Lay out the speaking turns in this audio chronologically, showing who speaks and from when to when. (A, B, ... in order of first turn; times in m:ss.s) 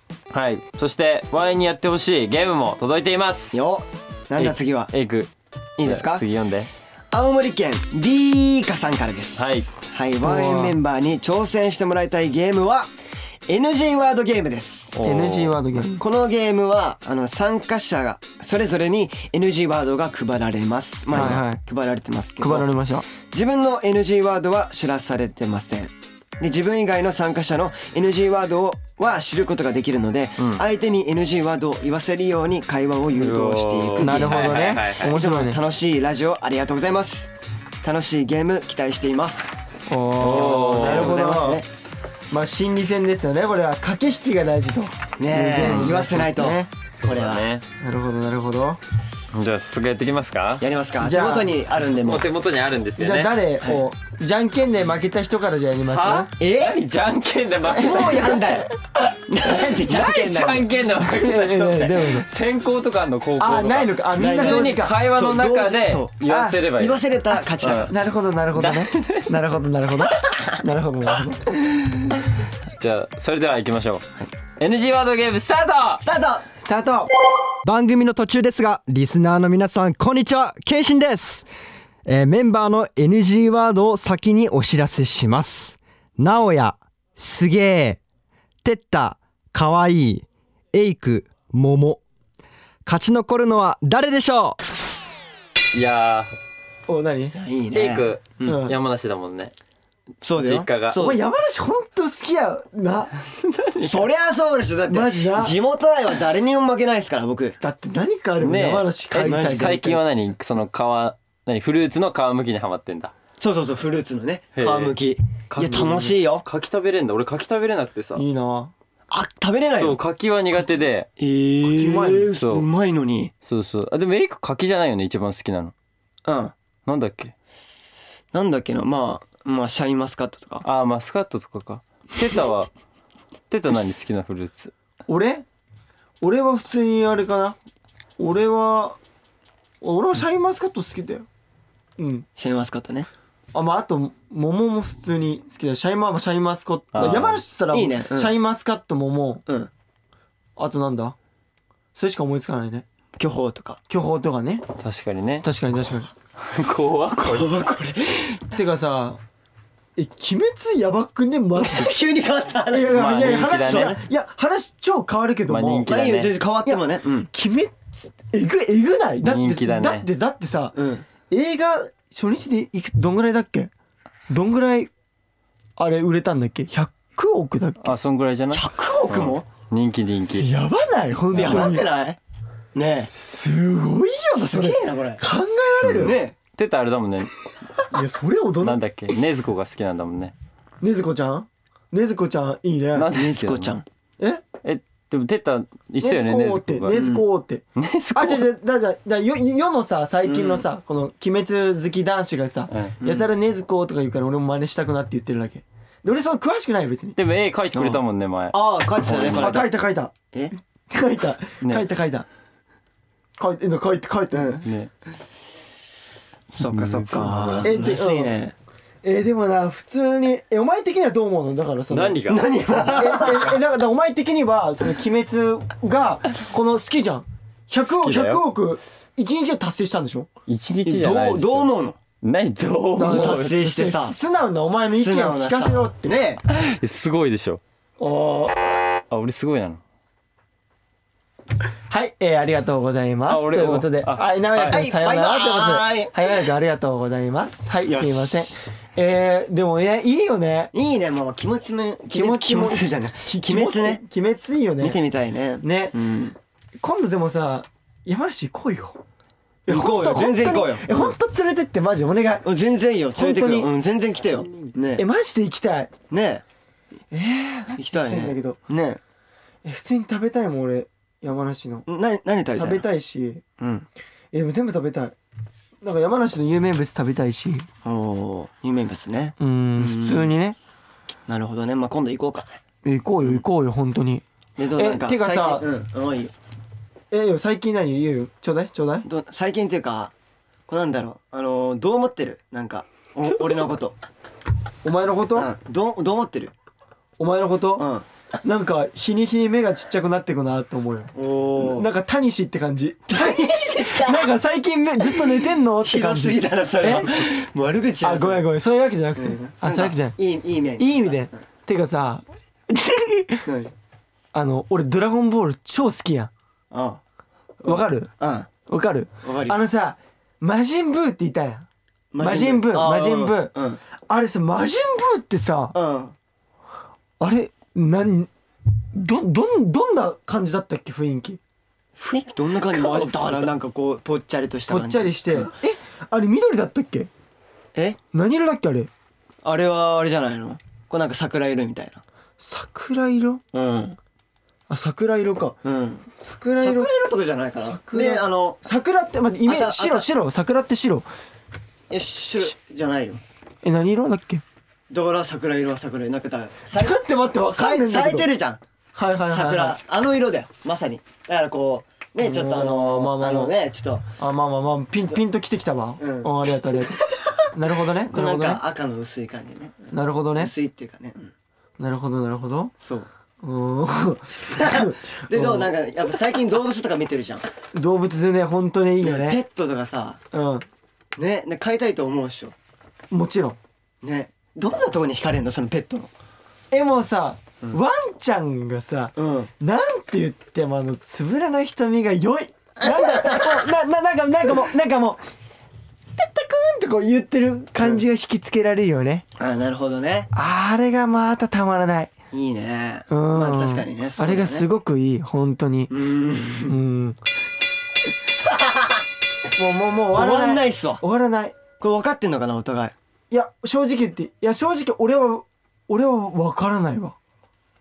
0:00.3-0:03.6 A
0:03.5-0:04.9 B
0:04.4-0:05.3 A
0:05.8-0:06.2 B
0:05.8-0:06.7 A
0:07.1-0:12.9 B
0:09.4-0:09.8 A
0:10.2-0:10.8 C
0:13.5-0:15.0 B
0:14.9-0:15.6 A
0:15.0-0:16.0 C
0:16.0-0:22.7 B
0:21.1-0:21.6 C
0:22.4-0:23.1 C
0:23.3-0:37.3 B
0:33.1-0:35.2 A
0:34.0-0:35.6 C
0:37.8-0:39.6 B
0:39.9-0:41.6 C
0:40.2-0:41.2 A
0:40.2-0:41.7 B
0:42.3-0:46.7 C
0:45.2-0:47.4 B
0:47.0-0:47.6 A
0:47.8-0:48.8 C
0:49.3-0:50.6 A
0:50.6-0:52.3 B
0:51.0-0:51.5 C
0:52.0-0:53.3 A
0:53.0-0:56.3 C
0:55.9-0:58.4 A
0:56.4-0:56.8 B
0:57.7-0:58.7 B
0:59.0-1:07.0 A
0:59.3-1:00.7 B
1:01.1-1:02.3 C
1:03.4-1:05.0 C
1:04.2-1:07.9 B
1:06.3-1:06.6 C
1:07.6-1:07.9 A
1:07.8-1:12.1 C
1:08.6-1:09.4 A
1:12.8-1:14.1 A
1:14.6-1:16.0 A
1:16.0-1:16.5 B
1:16.6-1:17.1 C
1:17.6-1:21.5 D
1:22.1-1:28.0 D
1:28.6-1:32.0 D
1:32.9-1:34.6 D
1:35.7-1:36.3 A
1:36.9-1:37.4 C
1:37.4-1:38.6 B
1:37.7-1:39.5 A
1:38.4-1:38.8 C
1:40.2-1:41.2 B
1:40.4-1:41.0 A
1:41.0-1:43.1 C
1:43.4-1:44.1 A
1:43.8-1:47.6 B
1:44.9-1:45.6 C
1:47.6-1:49.8 C
1:48.4-1:53.1 A
1:49.2-1:50.0 B
1:53.4-1:56.5 B
1:54.6-1:55.0 A
1:55.5-1:58.2 A
1:58.2-1:58.7 C
1:59.1-2:00.0 B
1:59.8-2:01.1 A
2:01.2-2:03.3 B
2:01.6-2:02.3 C
2:02.4-2:02.7 A
2:03.5-2:05.7 A
2:06.2-2:06.5 B
2:06.9-2:07.3 A
2:08.3-2:10.6 B
2:10.6-2:12.7 A
2:13.5-2:14.7 A
2:15.1-2:15.4 C
2:16.2-2:17.6 C
2:18.2-2:19.0 C
2:19.8-2:21.3 C
2:22.0-2:22.3 C
2:22.4-2:23.1 B
2:23.5-2:29.4 C
2:26.9-2:27.4 A
2:27.7-2:28.3 B
2:30.6-2:31.2 C
2:32.0-2:32.8 C
2:33.2-2:33.8 B
2:33.9-2:34.6 C
2:34.8-2:35.5 A
2:35.4-2:36.1 C
2:36.4-2:37.5 A
2:37.2-2:38.5 B
2:38.5-2:39.2 C
2:40.0-2:42.0 C
2:41.6-2:44.0 B
2:42.7-2:45.9 C
2:42.9-2:44.0 A
2:45.5-2:46.3 A
2:45.9-2:47.3 B
2:46.6-2:50.8 C
2:49.2-2:50.1 A
2:50.8-2:51.0 B
2:51.3-2:53.7 C
2:54.3-2:54.9 C
2:55.8-2:57.9 C
2:57.8-3:00.5 A
2:58.5-2:59.4 B
3:00.3-3:01.9 C
3:01.3-3:02.2 B
3:02.8-3:03.1 B
3:03.1-3:06.2 C
3:04.4-3:05.2 B
3:05.8-3:07.3 A
3:06.0-3:06.4 B
3:07.9-3:08.8 C
3:08.6-3:10.3 A
3:10.8-3:13.1 C
3:13.0-3:13.8 A
3:13.1-3:13.8 B
3:14.6-3:17.0 A
3:16.0-3:27.2 C
3:16.9-3:17.2 B
3:17.8-3:18.4 A
3:20.2-3:20.6 B
3:23.0-3:23.3 B
3:27.2-3:29.6 A
3:27.7-3:28.0 B
3:28.5-3:29.7 B
3:29.4-3:30.2 C
3:30.9-3:32.3 C
3:31.6-3:31.9 A
3:33.4-3:34.6 C
3:34.3-3:34.6 B
3:34.6-3:34.9 A
3:36.6-3:38.5 B
3:36.6-3:37.8 A
3:37.6-3:38.4 C
3:39.0-3:42.2 C
3:41.9-3:42.5 A
3:42.3-3:43.6 B
3:42.8-3:50.3 C
3:47.8-3:48.4 A
3:50.5-3:51.7 A
3:50.9-3:52.0 B
3:52.2-3:53.6 A
3:53.0-3:56.2 C
3:53.0-3:54.2 B
3:55.0-3:56.4 B
3:56.5-3:57.6 A
3:58.0-3:58.7 C
3:59.1-3:59.8 A
4:01.9-4:10.7 C
4:03.3-4:04.8 A
4:04.7-4:06.3 B
4:07.8-4:08.6 B
4:10.7-4:14.0 B
4:12.1-4:15.0 C
4:14.8-4:16.4 B
4:15.6-4:16.0 C
4:16.8-4:19.0 C
4:19.7-4:22.5 C
4:19.7-4:21.2 B
4:22.4-4:25.0 B
4:23.1-4:23.7 C
4:25.0-4:25.9 C
4:26.1-4:26.4 B
4:27.1-4:28.6 C
4:27.8-4:29.0 B
4:29.6-4:31.9 C
4:31.9-4:32.8 B
4:32.6-4:33.4 C
4:33.6-4:33.9 B
4:34.3-4:35.2 C
4:35.8-4:37.7 C
4:37.8-4:40.3 B
4:39.4-4:40.6 C
4:41.3-4:42.6 B
4:42.8-4:44.2 C
4:44.6-4:46.3 B
4:44.8-4:45.7 C
4:47.1-4:49.1 C
4:49.0-4:50.1 B
4:50.7-4:54.0 B
4:54.8-4:55.5 C
4:55.4-4:56.5 B
4:57.2-4:57.9 C
4:57.8-4:58.1 B
4:58.4-5:07.3 C
5:01.2-5:01.9 B
5:03.1-5:04.3 B
5:05.0-5:08.4 B
5:08.0-5:10.2 C
5:09.2-5:11.3 B
5:10.8-5:13.4 C
5:13.5-5:13.7 B
5:14.3-5:16.3 C
5:16.7-5:17.0 B
5:17.6-5:18.1 C
5:17.6-5:18.5 B
5:18.7-5:21.7 C
5:19.2-5:19.6 B
5:22.1-5:23.8 B
5:22.2-5:23.5 C
5:24.1-5:25.8 C
5:25.7-5:26.1 B
5:27.2-5:28.3 C
5:28.9-5:31.4 C
5:32.0-5:35.5 B
5:32.8-5:33.2 C
5:34.7-5:37.1 C
5:38.1-5:38.9 C
5:39.4-5:42.0 B
5:42.4-5:43.4 C
5:43.5-5:44.0 B
5:44.7-5:45.6 C
5:45.6-5:46.1 B
5:46.2-5:46.9 C
5:46.6-5:48.6 B
5:47.6-5:51.1 C
5:49.4-5:50.1 B
5:51.9-5:53.2 B
5:53.6-5:54.4 C
5:54.9-5:58.6 B
5:56.7-5:58.3 C
5:59.0-5:59.8 C
5:59.3-6:04.1 B
6:02.2-6:03.6 C
6:04.2-6:08.6 C
6:06.0-6:07.4 B
6:08.1-6:11.3 B
6:09.9-6:10.5 C
6:11.8-6:12.7 C
6:12.8-6:13.1 B
6:13.4-6:15.7 C
6:14.6-6:17.5 B
6:17.7-6:19.4 C
6:19.0-6:20.2 B
6:20.3-6:20.7 C
6:21.2-6:22.6 B
6:23.1-6:23.6 C
6:24.0-6:26.1 B
6:26.7-6:35.2 C
6:29.2-6:29.5 B
6:32.8-6:33.6 B
6:36.2-6:39.2 C
6:39.4-6:40.3 B
6:40.3-6:42.1 C
6:42.3-6:44.6 B
6:43.1-6:45.9 C
6:45.9-6:46.8 B
6:46.7-6:47.2 C
6:48.4-6:49.0 B
6:49.6-6:51.6 C
6:50.1-6:51.0 B
6:51.8-6:52.9 B
6:53.3-6:57.2 C